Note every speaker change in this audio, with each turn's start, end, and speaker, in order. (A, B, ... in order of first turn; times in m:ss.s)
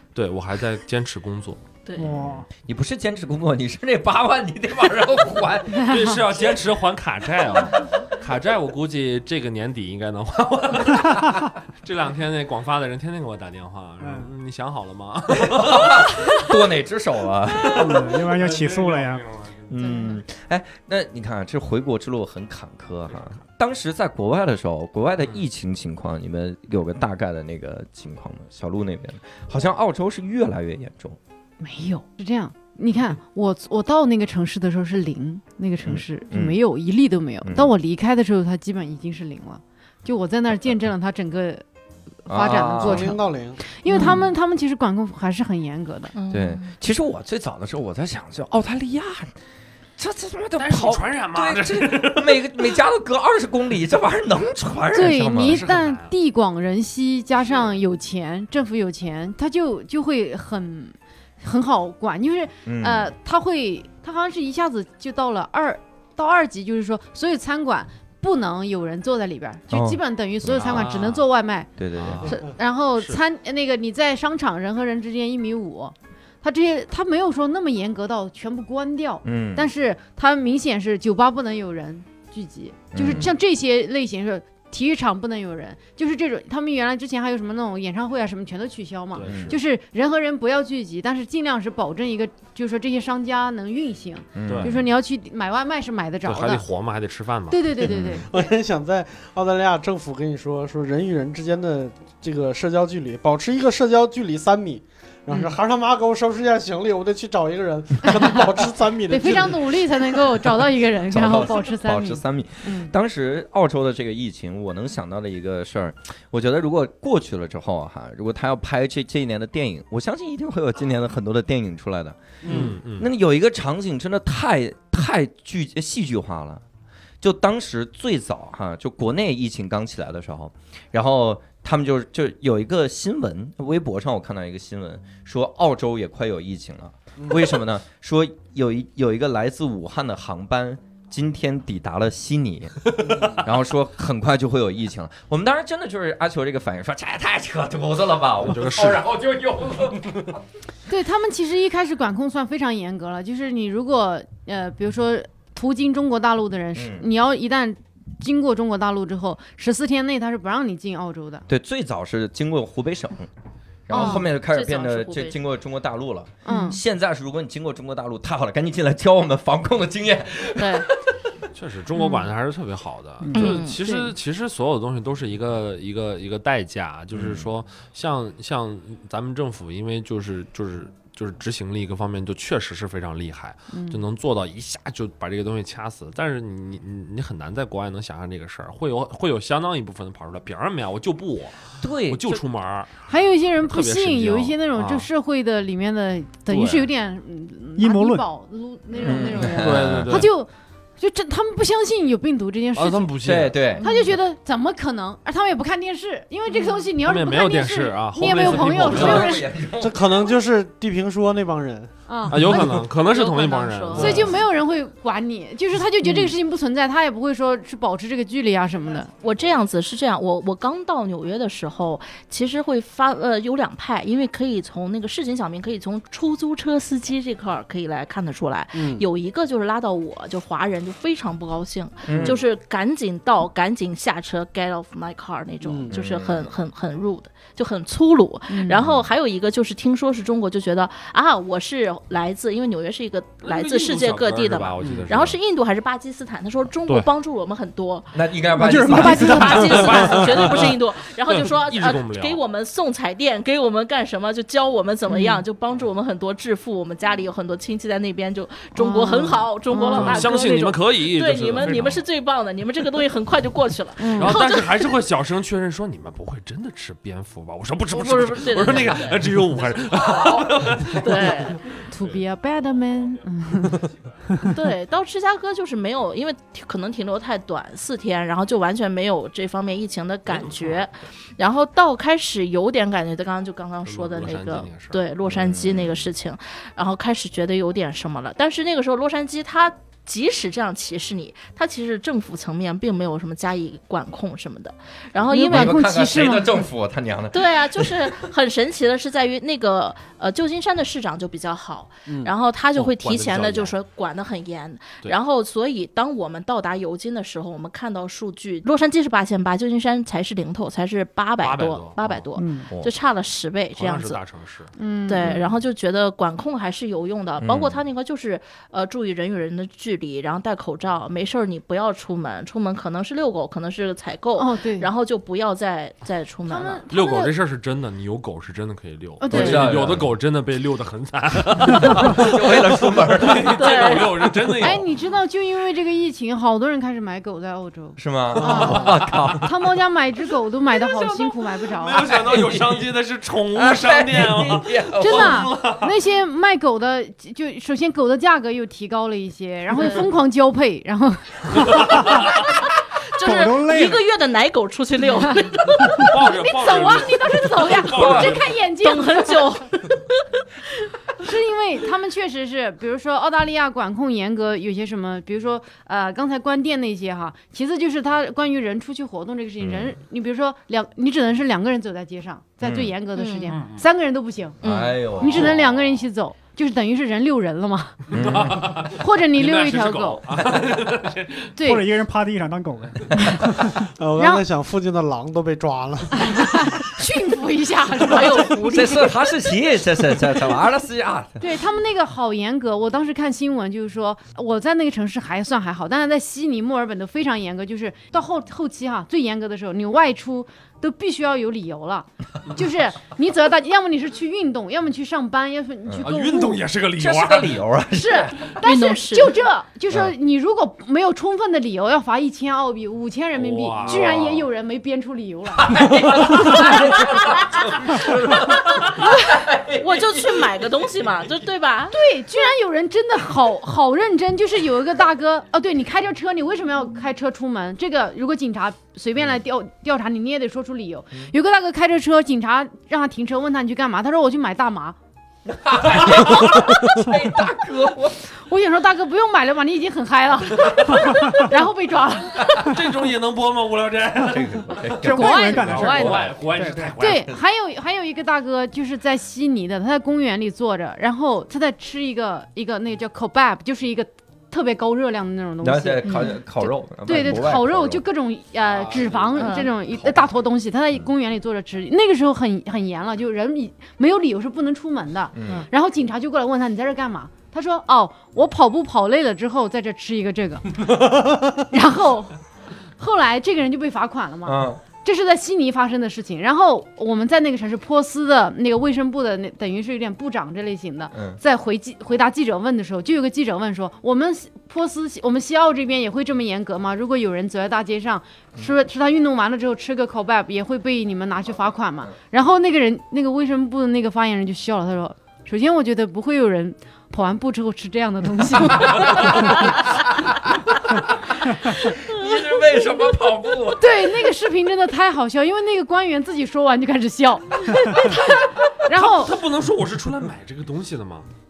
0:00.2-0:01.6 A
0:02.0-0:02.5 B
0:02.0-0:06.0 C
0:05.8-0:06.2 D
0:05.8-0:16.2 A
0:14.0-0:14.3 B
0:15.4-0:18.1 C
0:17.6-0:19.7 A
0:17.8-0:19.2 B
0:19.7-0:31.2 C
0:19.8-0:20.2 D
0:31.6-0:41.6 D
0:35.8-0:36.6 C
0:37.4-0:37.7 C
0:42.2-0:46.1 D
0:42.3-0:43.2 C
0:42.8-0:43.6 E
0:43.9-0:44.2 F
0:46.1-0:46.7 F
0:46.3-0:49.3 C
0:50.0-0:55.7 C
0:50.6-0:52.8 A
0:54.9-1:11.7 D
0:55.2-0:56.1 A
1:02.7-1:03.1 C
1:09.7-1:10.9 C
1:10.6-1:11.3 A
1:11.8-1:12.3 C
1:12.0-1:12.4 A
1:12.3-1:36.6 D
1:19.2-1:19.7 C
1:22.9-1:23.4 C
1:29.1-1:29.6 A
1:29.2-1:29.6 C
1:34.4-1:34.8 C
1:34.5-1:34.8 A
1:36.2-1:37.6 A
1:37.5-1:38.5 D
1:37.9-1:38.3 C
1:38.1-1:50.0 E
1:49.1-1:52.9 D
1:51.1-2:06.6 C
2:02.4-2:02.8 E
2:02.5-2:03.1 A
2:07.2-2:30.4 C
2:28.4-2:29.1 A
2:30.9-2:41.4 D
2:36.7-2:37.1 C
2:41.5-2:43.3 C
2:43.9-2:50.9 C
2:43.9-2:44.3 D
2:43.9-2:45.4 F
2:46.5-2:46.8 D
2:50.6-2:50.9 F
2:51.5-3:15.1 A
2:52.0-2:52.2 D
2:53.2-2:53.6 B
2:53.3-2:54.1 F
2:57.1-2:57.5 C
3:03.7-3:04.0 D
3:11.8-3:12.4 C
3:13.1-3:23.1 D
3:16.5-3:16.9 A
3:17.8-3:18.3 B
3:19.0-3:20.3 C
3:19.4-3:20.3 A
3:22.8-3:24.0 A
3:23.2-3:23.9 C
3:23.8-3:29.5 D
3:27.0-3:29.4 A
3:28.5-3:30.0 C
3:29.8-3:31.9 E
3:32.1-3:32.9 D
3:32.3-3:34.4 A
3:32.9-3:34.2 F
3:34.0-3:39.1 D
3:39.2-4:08.2 F
3:48.8-3:49.0 E
3:52.1-3:52.4 C
3:52.1-3:52.4 E
3:55.6-3:56.0 E
3:55.9-3:56.5 C
3:58.5-3:58.8 D
3:58.8-3:59.1 C
4:03.4-4:05.4 A
4:04.8-4:05.1 E
4:08.1-4:09.6 C
4:08.6-4:10.1 B
4:08.9-4:25.0 F
4:09.7-4:12.4 A
4:15.1-4:15.4 D
4:18.8-4:20.3 D
4:19.9-4:22.0 A
4:24.0-4:24.4 D
4:24.2-4:32.2 A
4:27.9-4:29.4 F
4:29.9-4:30.8 C
4:30.4-4:31.6 F
4:31.9-4:33.8 D
4:34.4-4:55.8 F
4:40.3-4:40.8 A
4:43.8-4:45.0 A
4:45.3-4:46.0 C
4:55.3-4:56.6 D
4:55.3-4:58.1 C
4:57.3-5:14.2 F
5:02.8-5:03.7 A
5:11.4-5:12.3 A
5:12.4-5:12.7 B
5:13.8-5:14.7 A
5:14.8-5:15.5 D
5:15.1-5:26.8 F
5:17.4-5:17.8 C
5:24.4-5:24.9 D
5:26.5-5:27.4 D
5:26.9-5:34.9 A
5:29.2-5:29.8 D
5:29.3-5:30.1 C
5:31.7-5:33.7 C
5:33.5-5:34.3 F
5:34.6-5:42.2 D
5:38.0-5:39.5 C
5:38.4-5:39.4 A
5:40.7-5:45.9 A
5:42.0-5:42.8 C
5:43.5-5:45.5 C
5:45.0-5:52.3 D
5:49.8-5:50.0 F
5:53.1-5:56.2 F
5:53.2-5:54.0 B
5:55.3-5:59.6 D
5:55.9-5:58.6 A
5:58.0-5:58.3 C
5:58.8-6:00.2 F
6:01.2-6:18.1 D
6:09.6-6:10.0 C
6:12.6-6:12.9 C
6:13.2-6:13.6 F
6:13.5-6:13.8 A
6:14.6-6:15.0 F
6:14.6-6:16.0 C
6:15.3-6:15.5 A
6:18.1-6:21.6 A
6:18.1-6:18.9 C
6:18.9-6:20.2 D
6:20.4-6:20.7 C
6:21.6-6:21.9 D
6:21.6-6:23.8 B
6:23.8-6:26.6 E
6:24.2-6:24.4 D
6:26.2-6:29.1 D
6:28.1-6:29.1 F
6:28.6-6:31.4 C
6:31.4-6:46.6 D
6:46.0-6:47.6 A
6:47.0-6:48.5 C
6:47.9-6:57.2 D
6:48.6-6:49.4 F
6:53.4-6:54.5 A
6:55.6-7:00.6 C
6:59.7-7:02.0 F
7:01.9-7:15.0 D
7:15.5-7:18.3 C
7:18.4-7:22.8 D
7:22.5-7:27.4 A
7:24.2-7:26.3 C
7:25.0-7:26.9 B
7:25.0-7:26.3 D
7:27.0-7:52.4 D
7:35.6-7:38.0 C
7:38.7-7:39.6 A
7:39.4-7:39.7 F
7:39.9-7:40.3 C
7:45.3-7:45.7 C
7:53.0-8:19.9 D
7:54.4-7:54.8 C
8:01.1-8:01.4 C
8:18.7-8:24.1 C
8:23.8-8:29.4 D
8:28.9-8:31.3 A